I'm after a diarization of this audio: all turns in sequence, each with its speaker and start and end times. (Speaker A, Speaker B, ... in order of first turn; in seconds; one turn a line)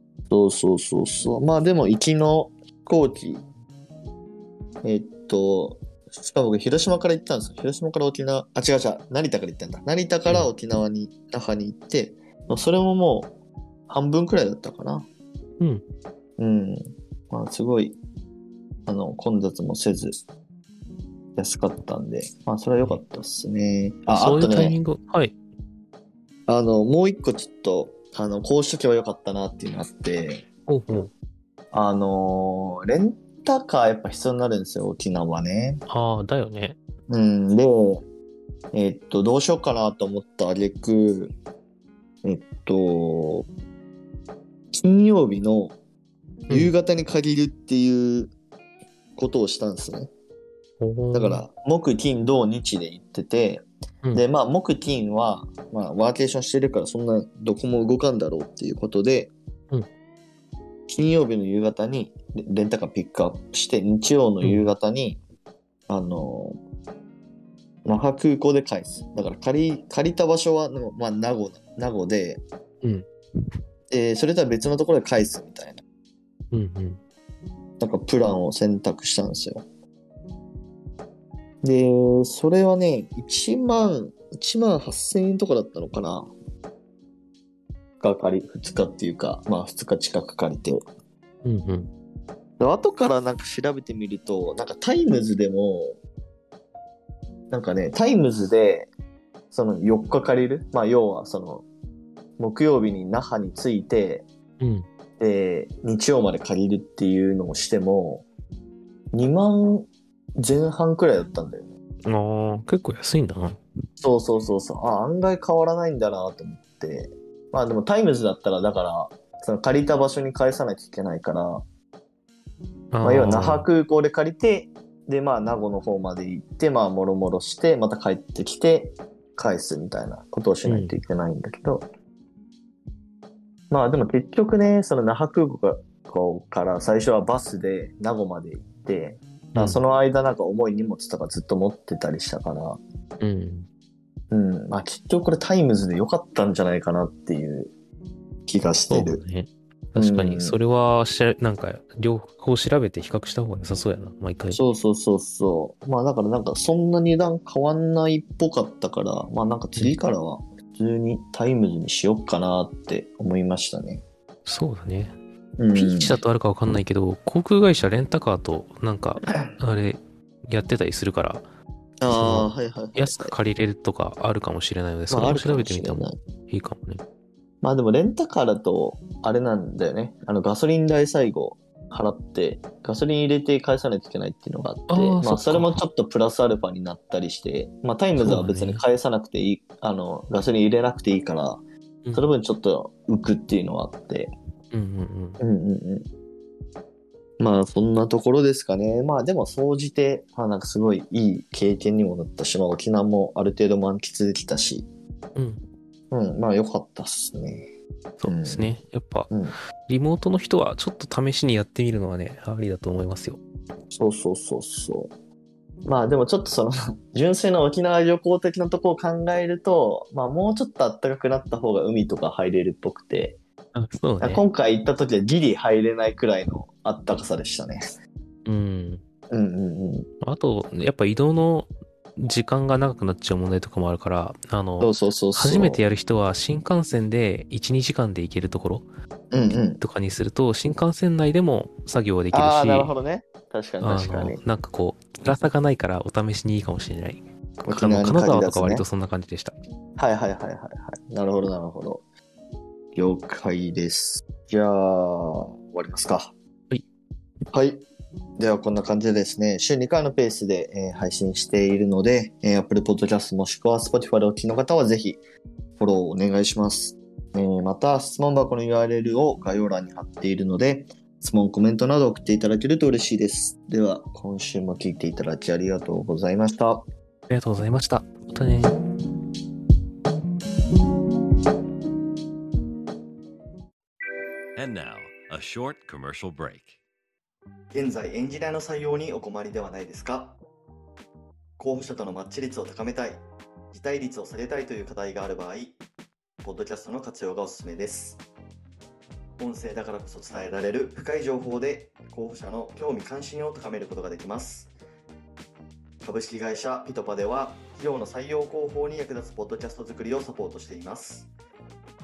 Speaker A: 0.3-3.4
Speaker A: 4.8-13.3
Speaker B: 10.3-10.5
Speaker A: 13.9-15.1
Speaker A: 16.4-18.0
Speaker A: 18.9-20.2
Speaker A: 21.4-24.8
Speaker B: 24.1-25.4
Speaker A: 26.5-31.1
Speaker B: 30.7-31.1
Speaker A: 31.7-35.8
Speaker B: 35.9-36.8
Speaker A: 37.1-38.0
Speaker A: 38.7-41.3
Speaker A: 42.2-43.5
Speaker A: 44.7-45.8
Speaker A: 46.5-48.3
Speaker A: 49.1-50.1
Speaker B: 50.8-51.4
Speaker A: 51.1-59.3
Speaker A: 60.9-65.2
Speaker B: 64.4-64.7
Speaker A: 65.9-66.6
Speaker A: 67.8-72.4
Speaker B: 72.8-73.1
Speaker A: 73.9-75.8
Speaker B: 76.5-77.0
Speaker A: 77.8-79.6
Speaker A: 81.6-86.3
Speaker A: 88.0-90.8
Speaker B: 91.4-91.9
Speaker A: 92.6-96.0
Speaker A: 97.5-98.9
Speaker A: 99.5-101.7
Speaker A: 102.4-104.2
Speaker B: 104.6-104.8
Speaker A: 105.2-108.2
Speaker A: 109.1-109.9
Speaker A: 110.4-111.7
Speaker B: 112.1-113.6
Speaker A: 114.0-121.6
Speaker B: 122.9-123.7
Speaker A: 123.0-131.8
Speaker B: 130.7-131.0
Speaker A: 133.7-142.8
Speaker B: 139.5-139.8
Speaker B: 143.2-143.7
Speaker A: 144.3-147.7
Speaker A: 148.5-149.2
Speaker B: 148.9-154.6
Speaker A: 149.9-150.6
Speaker A: 154.5-164.0
Speaker B: 164.4-165.1
Speaker A: 165.6-166.2
Speaker B: 165.7-171.4
Speaker A: 169.2-169.5
Speaker A: 172.0-173.3
Speaker B: 172.1-177.0
Speaker A: 175.1-176.2
Speaker A: 177.6-191.6
Speaker B: 184.9-185.8
Speaker B: 188.2-188.8
Speaker A: 192.1-194.3
Speaker B: 194.7-195.4
Speaker A: 195.4-196.1
Speaker A: 197.4-204.9
Speaker B: 205.3-205.6
Speaker A: 206.1-207.7
Speaker B: 208.2-209.3
Speaker A: 208.2-208.8
Speaker A: 209.3-209.6
Speaker B: 209.9-213.4
Speaker A: 213.9-215.1
Speaker A: 215.8-223.4
Speaker B: 223.7-224.4
Speaker A: 224.2-227.8
Speaker B: 228.4-229.0
Speaker A: 229.3-230.1
Speaker B: 230.2-238.9
Speaker A: 234.8-235.8
Speaker A: 239.3-239.8
Speaker B: 239.8-242.9
Speaker A: 242.3-244.4
Speaker B: 243.8-249.5
Speaker A: 247.7-248.8
Speaker A: 250.0-252.0
Speaker A: 252.9-256.3
Speaker A: 257.5-257.8
Speaker A: 258.4-265.2
Speaker A: 265.8-276.8
Speaker B: 277.3-278.8
Speaker C: 284.6-286.8
Speaker A: 287.7-290.4
Speaker A: 291.6-295.8
Speaker A: 296.4-298.2
Speaker A: 299.4-304.7
Speaker A: 306.0-311.3